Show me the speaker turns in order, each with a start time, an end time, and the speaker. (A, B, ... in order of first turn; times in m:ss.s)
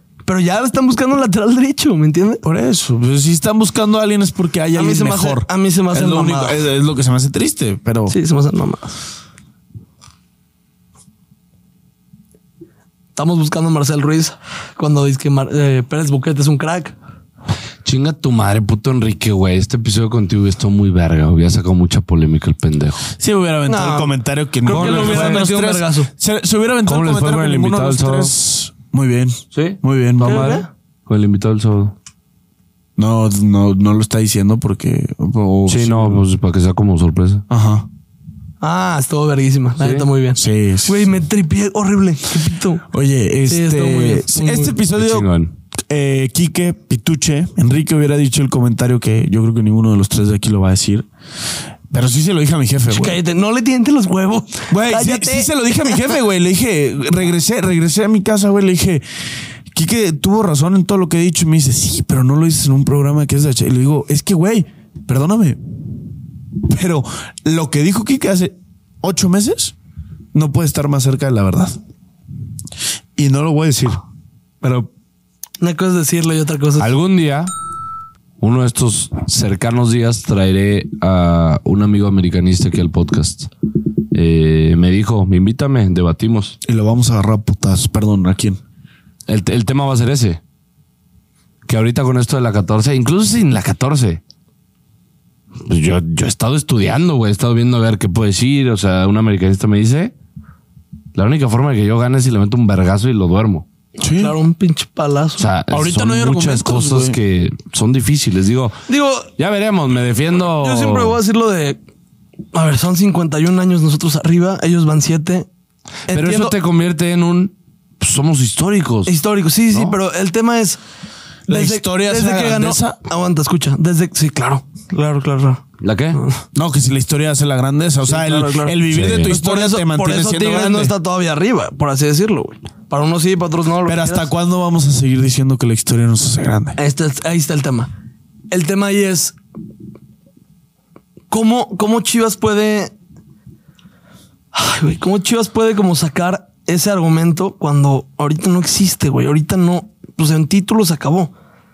0:00.2-0:02.4 A
0:02.4-0:08.2 B
0:04.7-0:06.6 A
0:08.1-0:09.0 A
0:13.2-0:16.9 A
0:17.8-0:23.0 C
0:23.2-0:30.6 B
0:23.6-0:24.1 A
0:24.6-0:26.1 A
0:24.7-0:25.5 C
0:26.8-0:28.3 C
0:29.5-0:31.9 C
0:30.2-0:30.7 A
0:33.0-0:36.2 B
0:35.6-0:37.4 C
0:37.5-0:37.8 B
0:38.6-0:42.8 A
0:39.8-0:40.1 C
0:40.4-0:41.0 B
0:42.9-0:45.3 B
0:43.4-0:44.8 A
0:44.9-0:45.5 C
0:45.9-0:51.1 B
0:51.9-0:53.2 B
0:52.9-0:55.9 A
0:54.7-0:59.0 B
0:59.7-1:05.6 B
1:06.6-1:09.7 B
1:10.3-1:11.8 B
1:13.2-1:14.0 B
1:14.6-1:14.9 B
1:15.6-1:16.9 A
1:16.8-1:17.5 C
1:18.4-1:23.5 C
1:24.1-1:26.6 C
1:26.6-1:28.6 B
1:29.3-1:30.4 C
1:31.6-1:34.2 C
1:35.6-1:40.1 C
1:41.1-1:43.6 C
1:44.0-1:44.4 B
1:44.0-1:45.5 A
1:45.4-1:48.8 C
1:45.7-1:47.2 B
1:48.9-1:49.3 A
1:49.4-1:51.2 C
1:50.4-1:51.8 A
1:52.5-1:55.5 A
1:56.1-1:56.5 A
1:56.1-1:59.1 C
1:59.0-2:00.8 A
2:01.5-2:03.0 B
2:01.5-2:05.6 A
2:05.8-2:06.2 C
2:06.1-2:06.4 A
2:06.5-2:10.9 B
2:08.0-2:14.3 A
2:08.9-2:09.3 C
2:13.8-2:16.8 B
2:16.8-2:17.9 A
2:18.5-2:19.4 A
2:21.3-2:22.9 A
2:24.5-2:31.3 A